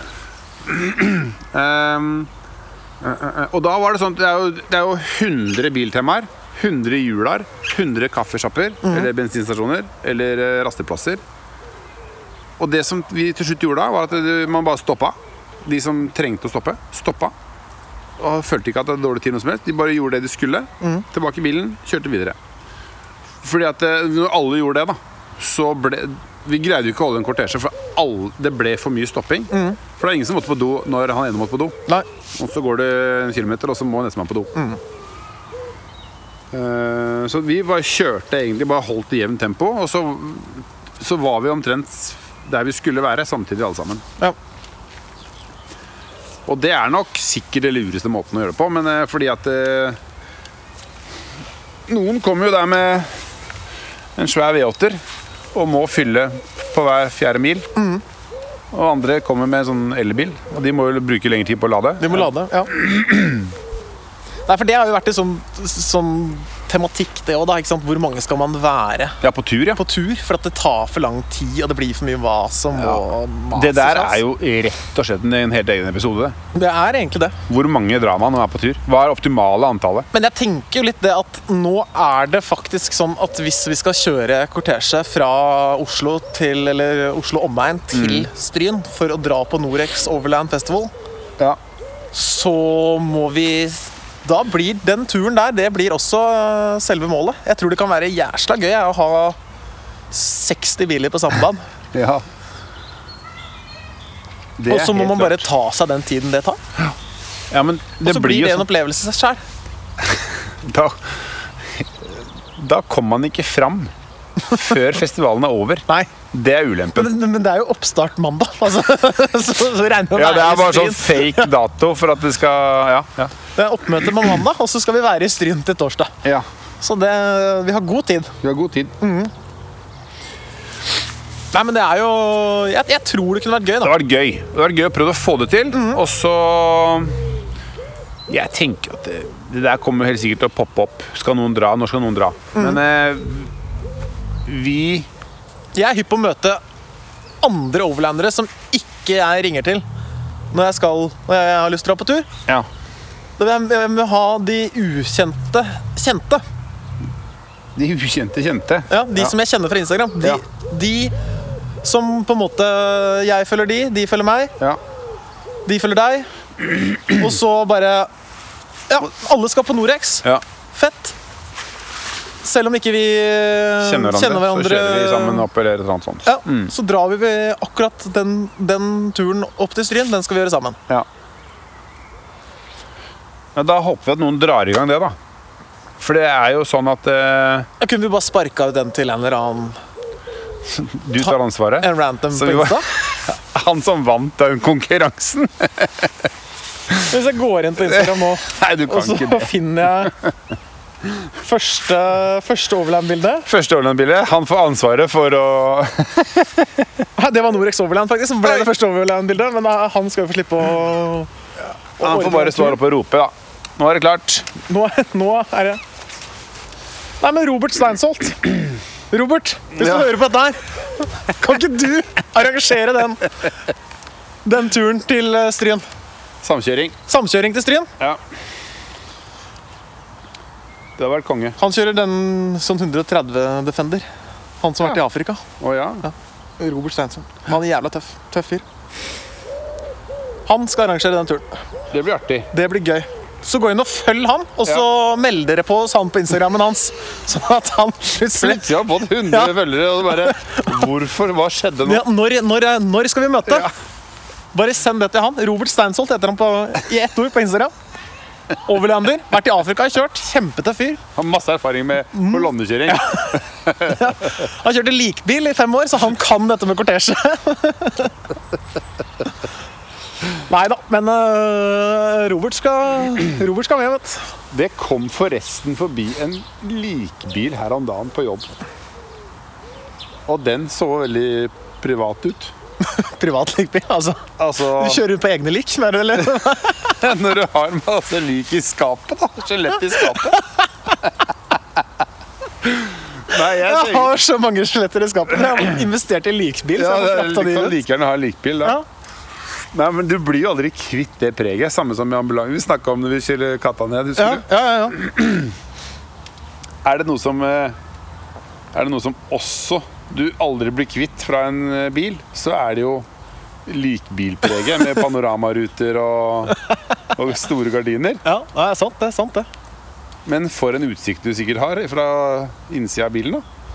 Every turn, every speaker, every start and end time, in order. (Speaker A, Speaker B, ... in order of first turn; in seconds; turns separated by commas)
Speaker A: 0.6-2.3, Speaker A: 3.0-11.2, Speaker B: 8.8-9.1, Speaker A: 12.6-17.3, Speaker A: 18.2-22.4, Speaker A: 23.4-31.8, Speaker B: 29.5-29.8, Speaker A: 32.3-34.5, Speaker B: 34.5-34.8, Speaker A: 36.5-44.0, Speaker A: 46.5-50.0, Speaker A: 51.9-53.1, Speaker A: 54.1-55.0, Speaker A: 55.5-57.7, Speaker B: 57.8-58.0, Speaker A: 58.7-63.5, Speaker B: 62.0-62.7, Speaker B: 64.5-69.2, Speaker A: 69.2-69.8, Speaker B: 69.7-74.2, Speaker A: 72.7-76.3, Speaker B: 76.5-77.3, Speaker A: 77.5-80.1, Speaker B: 80.1-90.9, Speaker A: 87.9-88.3, Speaker B: 92.1-99.4, Speaker B: 100.1-101.6, Speaker A: 101.9-102.2, Speaker A: 104.6-105.5, Speaker B: 104.7-106.6, Speaker A: 107.5-108.7, Speaker B: 108.0-109.4, Speaker A: 110.1-113.9, Speaker A: 114.5-117.1, Speaker B: 116.9-121.5, Speaker A: 120.1-123.3, Speaker B: 123.5-126.2, Speaker B: 126.8-128.3, Speaker A: 128.4-128.9, Speaker B: 129.0-129.3, Speaker B: 131.5-133.9, Speaker A: 133.8-137.2, Speaker B: 135.7-136.0, Speaker A: 138.3-143.5, Speaker A: 144.4-145.1, Speaker B: 145.7-146.6, Speaker B: 147.4-149.8, Speaker B: 150.5-152.3, Speaker B: 153.4-156.4, Speaker A: 157.7-159.3, Speaker B: 158.9-161.1, Speaker B: 161.8-164.5, Speaker B: 165.7-166.3, Speaker A: 166.7-167.1, Speaker B: 167.1-168.1, Speaker B: 168.9-171.2, Speaker B: 172.4-175.5, Speaker A: 173.8-176.7, Speaker B: 176.2-180.8, Speaker A: 183.5-185.2, Speaker A: 186.0-187.7, Speaker B: 187.8-189.8, Speaker A: 190.6-196.2, Speaker B: 191.2-192.8, Speaker B: 197.1-200.1, Speaker A: 197.8-200.3, Speaker B: 201.4-203.5, Speaker A: 203.4-206.9, Speaker B: 207.2-211.3, Speaker B: 212.0-212.8, Speaker A: 212.0-214.5, Speaker B: 214.7-215.8, Speaker B: 217.2-223.3, Speaker A: 219.8-220.1, Speaker B: 224.4-225.8, Speaker A: 226.4-227.0, Speaker B: 227.1-227.9, Speaker A: 231.0-231.6, Speaker B: 231.6-234.1, Speaker B: 234.6-235.4, Speaker A: 235.6-236.1, Speaker B: 236.0-238.6, Speaker B: 240.4-241.6, Speaker A: 241.9-242.5, Speaker B: 242.5-250.7, Speaker A: 248.3-252.0, Speaker B: 251.8-253.7, Speaker B: 254.5-257.7, Speaker B: 258.6-261.0, Speaker A: 261.1-264.1, Speaker B: 262.1-268.1, Speaker B: 270.5-274.3, Speaker A: 274.5-278.5, Speaker A: 280.2-282.5, Speaker B: 282.8-287.0, Speaker A: 284.4-285.0, Speaker A: 286.4-290.4, Speaker A: 292.6-294.2, Speaker B: 293.4-297.8, Speaker A: 296.8-298.8, Speaker A: 299.7-305.5, Speaker B: 304.2-305.0, Speaker A: 306.8-307.8, Speaker A: 308.7-313.1, Speaker A: 313.6-316.6, Speaker A: 317.1-318.2, Speaker B: 318.2-319.5, Speaker A: 320.2-323.4